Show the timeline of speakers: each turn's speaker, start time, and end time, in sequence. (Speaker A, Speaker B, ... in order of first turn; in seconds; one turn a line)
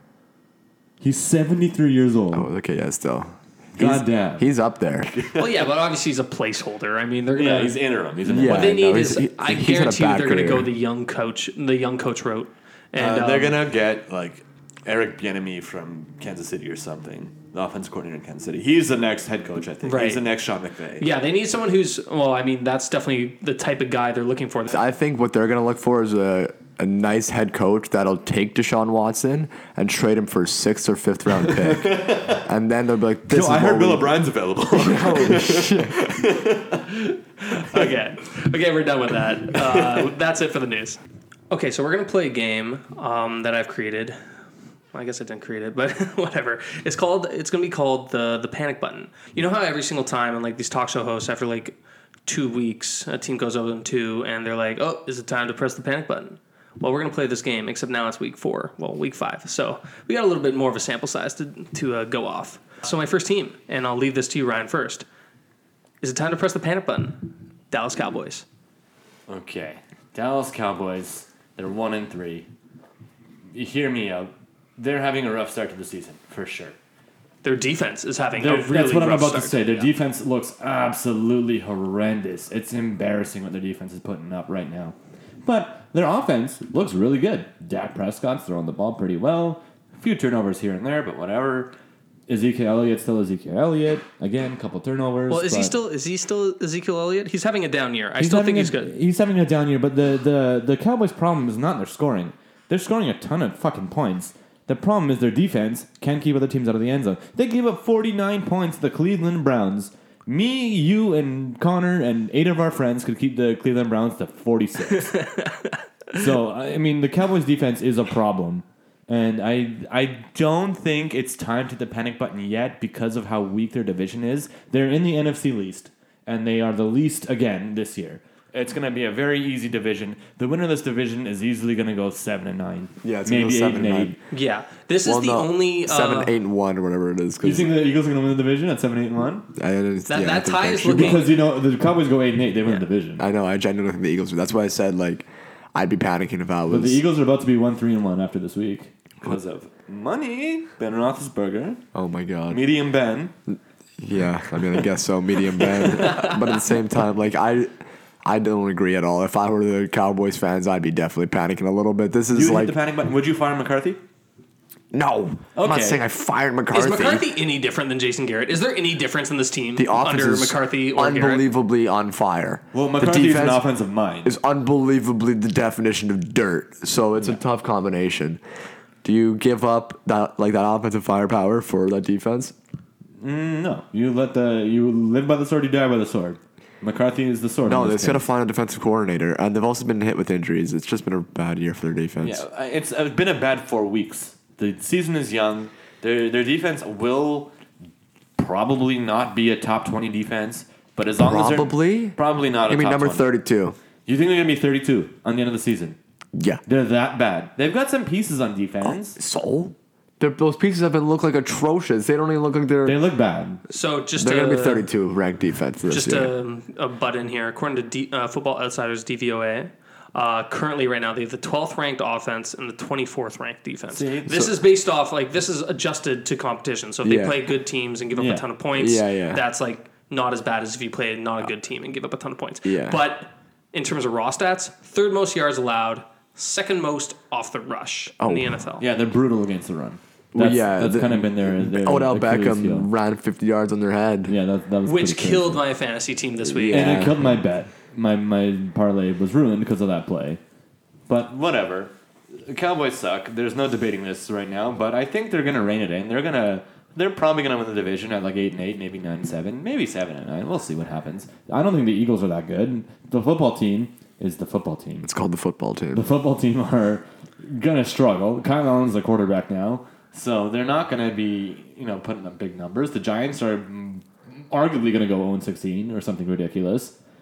Speaker A: 1.0-2.5
Speaker B: 2.3-5.1
Speaker A: 3.8-4.5
Speaker A: 5.1-5.7
Speaker C: 5.3-7.8
Speaker A: 7.3-8.8
Speaker B: 8.2-10.7
Speaker C: 8.4-13.6
Speaker A: 12.9-21.1
Speaker C: 19.8-20.2
Speaker C: 21.0-24.8
Speaker B: 24.7-34.1
Speaker A: 31.4-32.4
Speaker A: 33.3-37.1
Speaker B: 34.7-36.2
Speaker C: 37.4-44.2
Speaker A: 39.6-40.0
Speaker C: 44.9-65.0
Speaker C: 66.0-68.4
Speaker A: 69.3-72.5
Speaker A: 73.5-76.7
Speaker C: 77.4-79.9
Speaker A: 78.3-91.7
Speaker A: 92.3-95.7
Speaker C: 95.3-98.9
Speaker A: 98.2-115.2
Speaker C: 114.9-116.2
Speaker A: 116.1-134.2
Speaker B: 133.0-134.2
Speaker C: 134.3-136.3
Speaker B: 135.0-137.7
Speaker A: 137.4-139.4
Speaker B: 139.5-141.3
Speaker C: 140.1-141.3
Speaker A: 140.9-143.2
Speaker B: 142.7-147.0
Speaker A: 146.7-151.8
Speaker B: 151.9-152.6
Speaker A: 152.5-153.3
Speaker B: 153.5-157.7
Speaker C: 156.0-156.5
Speaker B: 158.2-162.7
Speaker A: 162.3-164.0
Speaker B: 164.9-167.2
Speaker A: 165.5-166.0
Speaker C: 166.7-171.4
Speaker B: 169.8-173.6
Speaker A: 172.7-174.3
Speaker B: 174.2-178.4
Speaker B: 179.0-182.5
Speaker A: 183.2-188.2
Speaker B: 187.7-192.4
Speaker A: 192.2-197.5
Speaker A: 198.4-203.2
Speaker B: 201.2-202.2
Speaker B: 202.7-203.8
Speaker A: 204.1-206.0
Speaker B: 206.3-206.6
Speaker A: 206.7-209.2
Speaker B: 208.8-213.0
Speaker A: 212.8-213.6
Speaker C: 213.7-214.8
Speaker B: 214.2-216.3
Speaker C: 215.9-238.8
Speaker A: 223.9-224.5
Speaker B: 227.0-227.5
Speaker A: 228.2-228.4
Speaker B: 228.8-229.4
Speaker B: 232.6-233.0
Speaker B: 238.2-238.6
Speaker A: 238.8-242.9
Speaker B: 240.3-244.3
Speaker A: 244.3-245.6
Speaker C: 244.8-247.1
Speaker B: 246.4-247.4
Speaker A: 246.7-250.4
Speaker A: 251.1-265.1
Speaker B: 265.0-266.0
Speaker A: 265.9-276.9